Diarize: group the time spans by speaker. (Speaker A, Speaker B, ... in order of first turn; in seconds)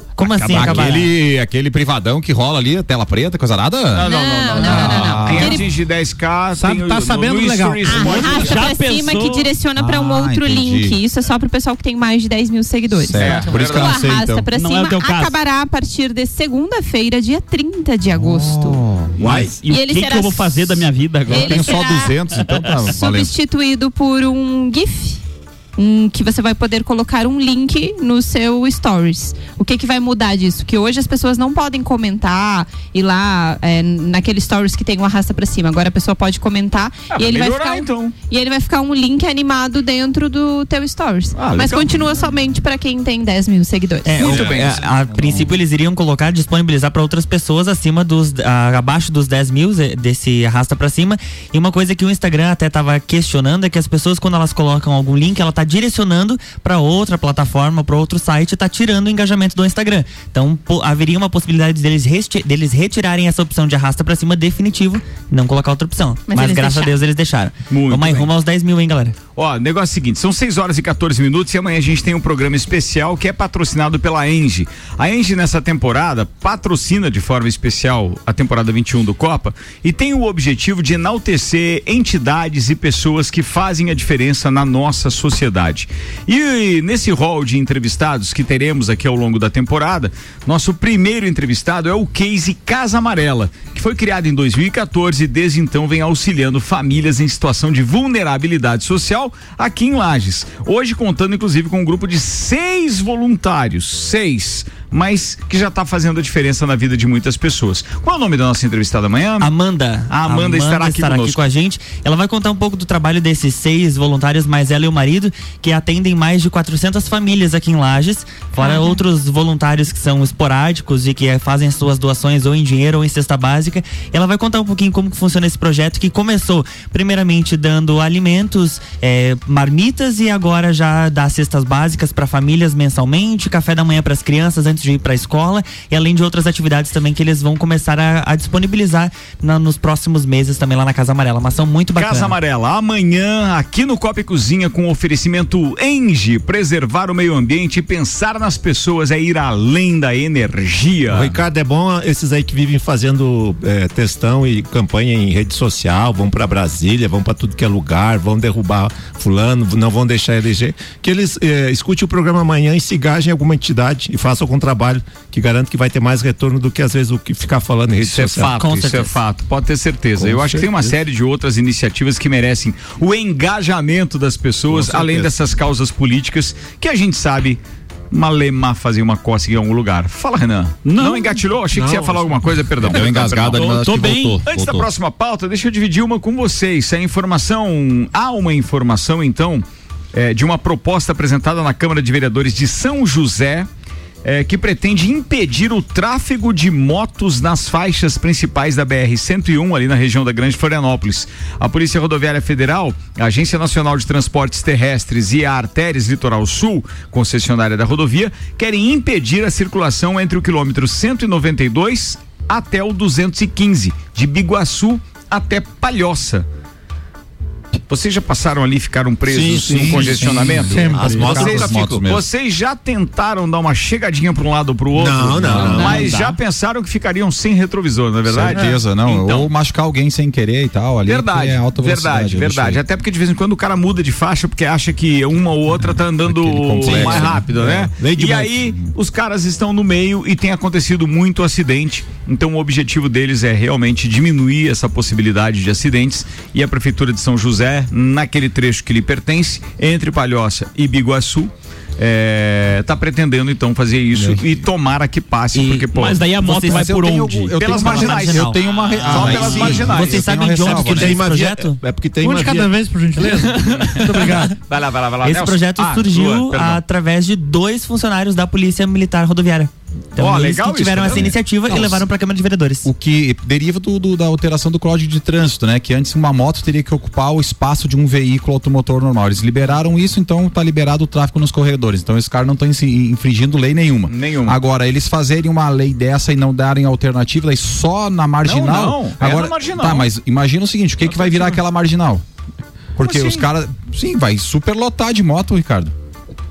Speaker A: 0.2-1.1, 44.0-69.2, 109.4-142.3, 168.5-169.2, 257.6-258.6, 259.1-261.8, 265.2-272.9
Speaker B: 0.2-1.1, 8.3-9.5, 14.6-15.4, 19.2-21.9, 180.8-181.4, 183.4-184.4, 225.6-226.4, 255.6-257.6
Speaker C: 0.5-4.1, 4.6-5.6, 9.8-11.0, 12.9-14.5, 18.1-19.4, 21.3-23.3, 44.4-45.5, 182.8-184.9, 219.6-222.3, 225.5-226.0, 228.3-232.8, 236.2-237.5, 254.2-254.4, 256.4-261.2, 271.7-272.0, 272.8-292.2, 293.0-295.9
Speaker D: 3.9-8.7, 13.1-14.0, 37.1-38.1, 41.4-42.0, 44.2-44.9, 67.7-68.3, 69.4-109.5, 110.1-111.4, 142.0-151.4, 168.0-177.6, 178.1-183.8, 184.4-193.7, 194.2-216.5, 217.9-229.5, 231.1-256.2, 257.6-260.5, 263.4-266.8, 270.2-271.4, 284.1-284.6, 288.4-290.1, 291.0-291.6, 293.0-293.5
Speaker E: 4.0-5.7, 7.8-18.8, 19.7-22.1, 22.8-25.2, 25.8-44.4, 66.3-67.0, 118.6-119.0
Speaker F: 4.6-4.9, 6.5-8.6, 220.7-221.3, 262.2-264.6
Speaker G: 19.2-19.5, 151.1-168.5, 170.2-170.9, 174.7-175.3, 181.7-182.6, 219.3-222.0, 224.9-226.1, 236.8-238.6, 259.2-259.8, 260.8-262.7